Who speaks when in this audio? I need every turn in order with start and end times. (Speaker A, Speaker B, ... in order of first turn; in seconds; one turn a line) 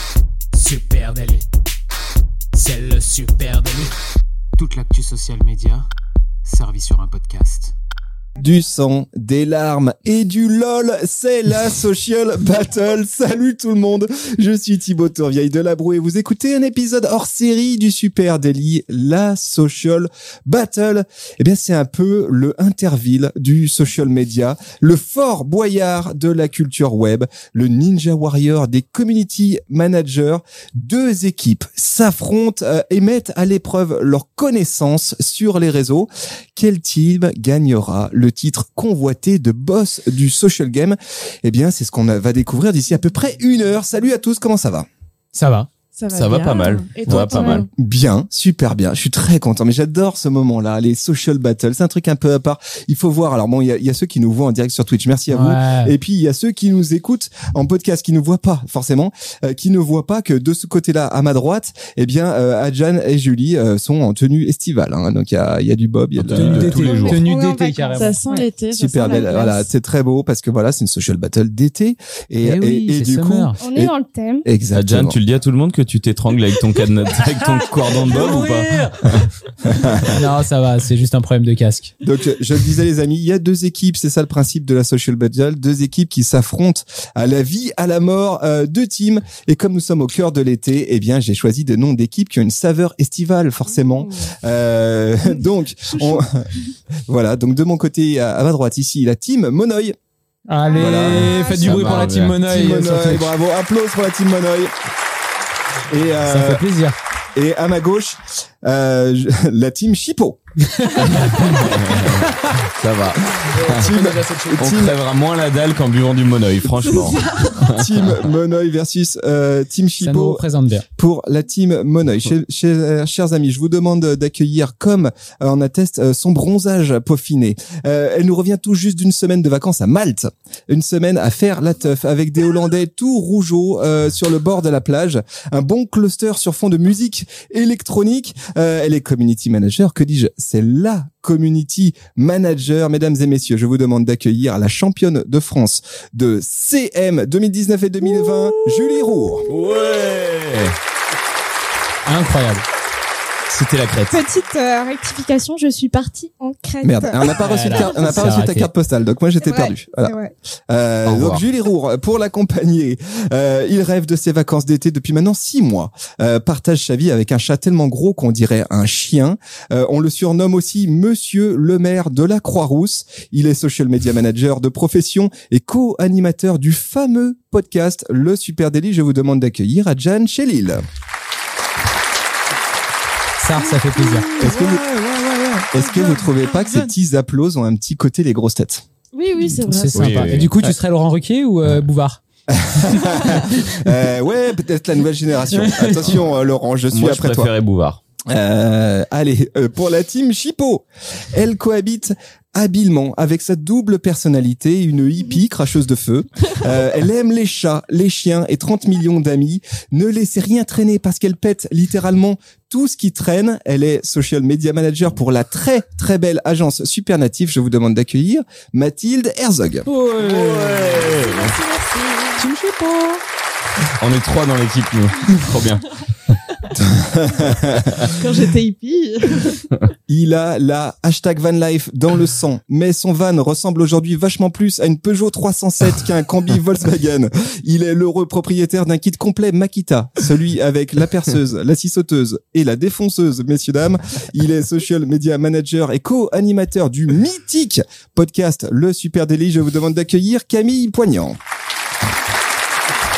Speaker A: 0.5-1.4
Speaker A: 2.5-3.9
Speaker A: 4.6-5.8
Speaker A: 6.5-7.7
Speaker B: 8.4-44.9
Speaker A: 45.3-45.7
Speaker C: 45.9-47.7
Speaker D: 46.1-47.6
Speaker B: 47.1-66.8
Speaker E: 47.3-47.6
Speaker A: 55.3-55.9
Speaker D: 66.2-67.2
Speaker A: 66.3-68.4
Speaker E: 66.7-68.4
Speaker C: 68.0-69.7
Speaker B: 68.7-73.9
Speaker A: 72.4-73.6
Speaker E: 73.6-74.5
Speaker B: 74.4-75.2
Speaker D: 74.7-79.3
Speaker A: 77.4-79.0
Speaker B: 79.6-80.2
Speaker A: 80.0-81.9
Speaker B: 82.0-96.5
Speaker C: 93.8-94.3
Speaker E: 96.0-96.2
Speaker B: 97.1-100.0
Speaker A: 100.5-103.3
Speaker E: 100.6-101.9
Speaker B: 100.7-104.7
Speaker D: 101.1-102.4
Speaker B: 105.9-106.7
Speaker A: 106.2-107.0
Speaker B: 107.3-110.4
Speaker A: 110.7-111.6
Speaker D: 111.0-113.8
Speaker A: 113.5-114.8
Speaker B: 113.7-115.0
Speaker D: 114.6-118.2
Speaker B: 117.6-120.4
Speaker A: 120.0-120.8
Speaker B: 121.0-149.5
Speaker D: 149.4-150.8
Speaker A: 152.0-152.6
Speaker D: 153.5-154.2
Speaker E: 154.1-158.0
Speaker B: 156.8-160.2
Speaker A: 157.3-158.7
Speaker E: 159.4-160.3
Speaker B: 160.7-180.8
Speaker D: 161.0-161.4
Speaker A: 183.4-184.3
Speaker C: 183.6-184.8
Speaker B: 184.4-188.8
Speaker C: 185.7-186.8
Speaker C: 189.1-190.2
Speaker A: 189.6-192.2
Speaker D: 189.9-190.5
Speaker B: 192.5-197.5
Speaker A: 192.8-193.1
Speaker A: 195.5-195.8
Speaker D: 196.9-198.0
Speaker B: 198.3-219.9
Speaker A: 219.8-221.1
Speaker D: 220.2-221.6
Speaker C: 220.9-222.5
Speaker A: 222.4-223.2
Speaker D: 224.0-226.4
Speaker B: 226.7-228.1
Speaker C: 228.0-229.7
Speaker B: 230.1-251.4